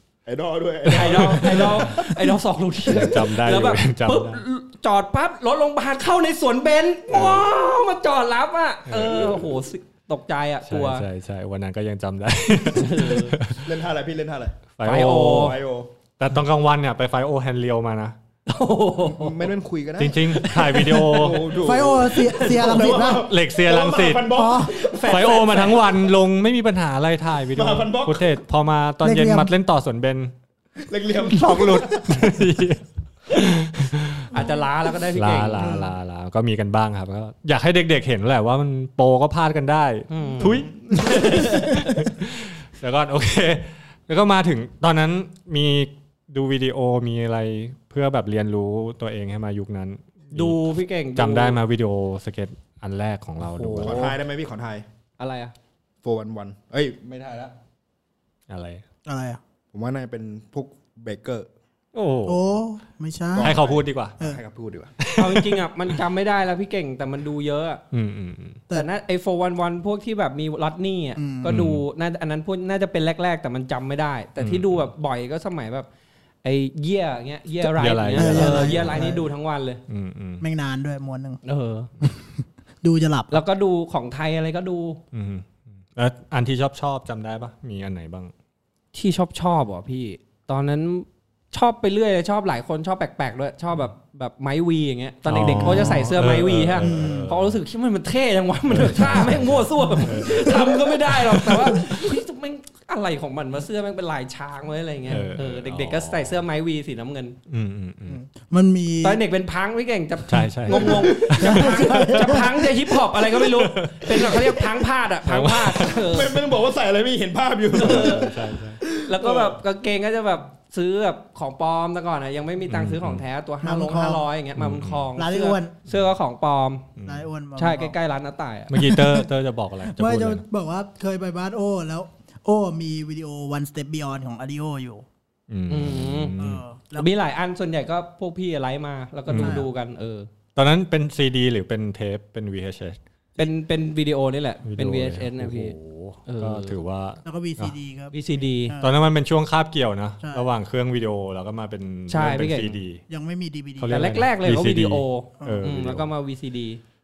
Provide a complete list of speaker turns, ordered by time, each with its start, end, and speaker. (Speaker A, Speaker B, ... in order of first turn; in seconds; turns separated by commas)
Speaker A: 0.3-2.2, Speaker B: 0.8-11.1, Speaker C: 0.9-1.9, Speaker C: 2.9-4.4, Speaker C: 7.1-7.5, Speaker C: 8.9-9.5, Speaker C: 10.7-13.7, Speaker B: 12.7-13.4, Speaker A: 13.5-15.9, Speaker C: 14.8-15.6, Speaker B: 14.8-15.6, Speaker C: 16.2-18.2, Speaker B: 18.5-19.5, Speaker A: 19.0-25.4, Speaker C: 20.0-21.6, Speaker B: 20.5-21.2, Speaker D: 21.6-23.3, Speaker C: 22.6-24.3, Speaker D: 24.3-24.8, Speaker B: 24.7-26.0, Speaker C: 25.1-30.3, Speaker A: 27.6-28.3, Speaker D: 29.0-29.5, Speaker A: 30.8-32.3, Speaker C: 31.2-34.4, Speaker B: 34.3-35.8, Speaker C: 35.1-54.1, Speaker D: 35.6-35.9, Speaker B: 40.1-42.0, Speaker A: 40.4-41.4, Speaker B: 50.3-51.6, Speaker B: 53.4-54.1, Speaker A: 53.8-54.9, Speaker B: 55.2-55.5, Speaker A: 56.0-57.5, Speaker C: 58.5-58.8, Speaker D: 59.1-59.4, Speaker A: 59.7-61.5, Speaker C: 61.9-62.4, Speaker D: 62.2-63.6, Speaker A: 63.3-64.9, Speaker C: 63.4-64.1, Speaker C: 65.0-65.6, Speaker B: 65.1-67.8, Speaker C: 67.9-68.6, Speaker B: 68.7-75.9, Speaker D: 71.2-71.5, Speaker C: 71.5-71.8, Speaker C: 74.4-74.7, Speaker B: 76.4-79.8, Speaker C: 77.6-79.1, Speaker D: 78.2-79.2, Speaker C: 79.9-80.5, Speaker D: 80.4-81.4, Speaker B: 81.4-81.9, Speaker D: 82.0-83.4, Speaker B: 83.3-85.0, Speaker C: 85.1-88.3, Speaker B: 88.9-107.4, Speaker C: 95.3-97.6, Speaker D: 95.4-96.2, Speaker D: 96.8-97.3, Speaker C: 98.7-102.0, Speaker C: 105.1-106.4, Speaker C: 107.5-108.2, Speaker D: 108.1-109.2, Speaker B: 109.0-116.4, Speaker C: 110.3-112.5, Speaker A: 110.7-111.7, Speaker D: 111.4-112.7, Speaker C: 113.4-114.6, Speaker C: 115.2-116.1, Speaker A: 116.0-119.6, Speaker B: 117.7-118.3, Speaker C: 117.8-118.8, Speaker B: 119.0-126.9, Speaker C: 122.7-123.2, Speaker D: 123.6-124.2, Speaker C: 124.6-125.1, Speaker D: 125.2-125.7, Speaker C: 127.0-127.3, Speaker D: 127.0-128.0, Speaker B: 127.6-128.7, Speaker C: 128.7-130.4, Speaker D: 128.8-129.3, Speaker D: 129.9-135.1, Speaker C: 135.5-136.6, Speaker B: 135.7-136.4, Speaker D: 136.4-137.1, Speaker B: 136.9-140.3, Speaker C: 139.3-139.7, Speaker D: 139.4-139.7, Speaker C: 140.6-143.0, Speaker B: 143.4-146.8, Speaker C: 144.7-147.8, Speaker D: 147.2-149.0, Speaker B: 148.1-148.8, Speaker C: 148.8-153.0, Speaker D: 150.2-150.5, Speaker B: 152.1-152.8, Speaker D: 153.1-154.1, Speaker C: 153.8-156.1, Speaker B: 153.9-156.8